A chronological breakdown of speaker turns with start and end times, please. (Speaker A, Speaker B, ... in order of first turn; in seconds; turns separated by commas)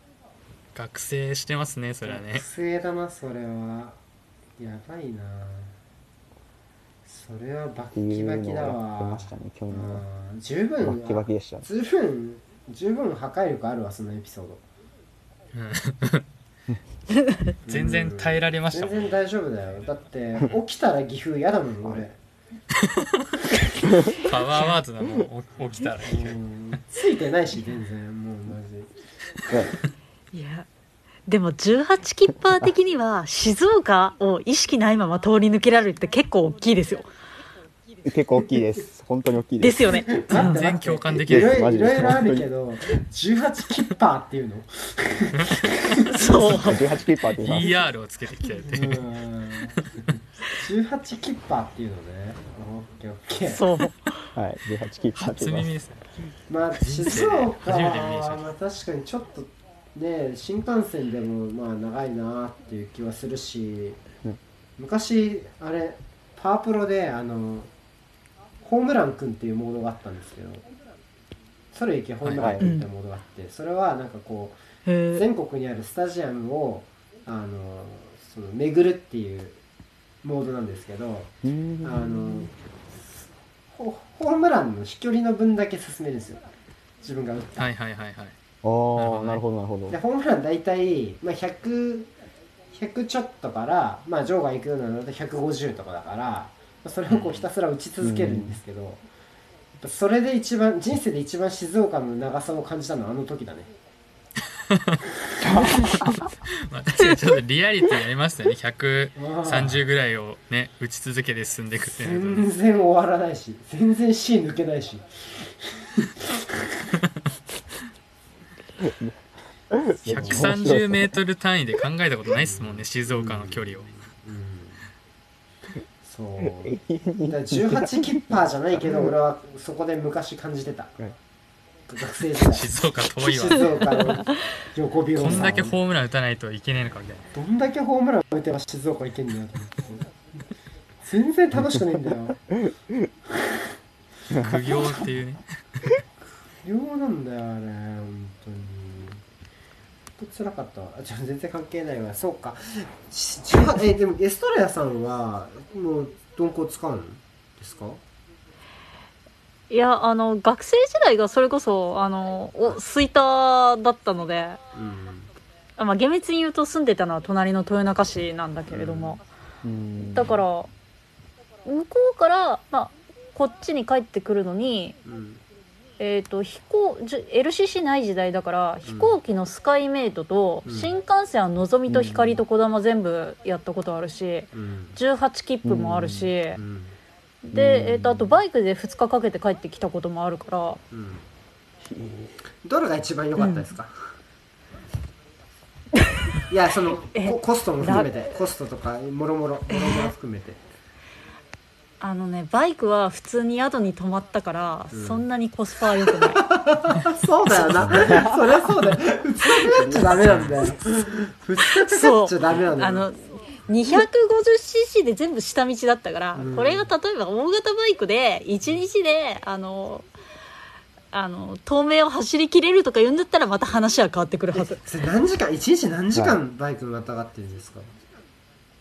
Speaker A: 0.7-2.5, Speaker B: 2.0-4.0, Speaker B: 4.6-5.8, Speaker B: 7.0-14.7, Speaker C: 7.9-10.0, Speaker C: 10.8-11.7, Speaker A: 15.5-16.2, Speaker A: 17.6-19.2, Speaker B: 17.6-22.2, Speaker C: 23.9-24.2, Speaker A: 24.1-26.8, Speaker B: 26.0-28.9, Speaker D: 30.3-30.7, Speaker D: 31.2-37.1, Speaker C: 38.0-39.9, Speaker D: 39.6-40.6, Speaker B: 40.1-46.2, Speaker A: 40.3-41.6, Speaker C: 41.1-42.5, Speaker D: 46.1-46.9, Speaker C: 46.5-47.7, Speaker A: 47.3-49.1, Speaker B: 48.6-53.6, Speaker A: 49.7-50.1, Speaker D: 53.5-54.3, Speaker C: 54.3-55.7, Speaker A: 55.2-56.0, Speaker B: 56.5-64.0, Speaker A: 56.7-58.4, Speaker B: 64.8-67.7, Speaker B: 68.6-70.7, Speaker B: 71.7-74.6, Speaker C: 72.4-72.7, Speaker D: 72.6-72.9, Speaker D: 74.8-75.2, Speaker B: 75.1-79.6, Speaker B: 80.2-86.4, Speaker C: 81.4-82.5, Speaker B: 87.0-87.7, Speaker A: 87.5-88.4, Speaker C: 88.6-90.0, Speaker A: 89.0-89.4, Speaker B: 89.9-92.1, Speaker B: 92.7-99.0, Speaker A: 97.1-97.5, Speaker C: 98.0-98.6, Speaker B: 99.8-103.7, Speaker A: 104.7-105.0, Speaker C: 105.4-106.2, Speaker A: 105.8-112.5, Speaker B: 109.2-109.8, Speaker B: 111.8-116.4, Speaker C: 118.8-121.2, Speaker A: 120.0-124.0, Speaker B: 120.0-120.6, Speaker B: 122.3-124.9, Speaker B: 126.0-126.7, Speaker C: 126.4-129.2, Speaker B: 127.3-130.9, Speaker B: 131.9-132.7, Speaker A: 132.4-134.2, Speaker B: 133.2-135.8, Speaker A: 135.2-137.3, Speaker C: 135.3-135.7, Speaker B: 137.3-140.1, Speaker B: 141.0-142.4, Speaker C: 142.5-143.1, Speaker C: 144.3-144.8, Speaker A: 144.3-146.0, Speaker B: 146.6-149.2, Speaker B: 150.2-158.0, Speaker D: 159.7-164.6, Speaker B: 164.7-165.3, Speaker D: 165.8-169.2, Speaker B: 168.7-169.2, Speaker C: 169.6-170.4, Speaker D: 170.0-170.7, Speaker D: 171.6-175.0, Speaker B: 175.0-175.4, Speaker D: 176.0-186.6, Speaker B: 178.8-179.2, Speaker B: 180.6-180.9, Speaker C: 181.9-182.4, Speaker B: 184.5-185.0, Speaker C: 185.6-186.3, Speaker B: 186.5-187.0, Speaker D: 187.4-190.8, Speaker C: 187.5-188.4, Speaker B: 190.9-191.3, Speaker C: 191.8-192.3, Speaker B: 192.6-194.0, Speaker D: 193.4-193.7, Speaker B: 196.5-200.6, Speaker D: 197.1-198.1, Speaker D: 199.7-200.1, Speaker D: 202.0-206.4, Speaker B: 204.9-205.3, Speaker B: 206.2-213.1, Speaker C: 207.9-208.4, Speaker A: 210.2-210.7, Speaker D: 211.6-220.1, Speaker B: 216.3-216.9, Speaker D: 221.1-224.8, Speaker B: 224.6-227.9, Speaker C: 226.1-226.4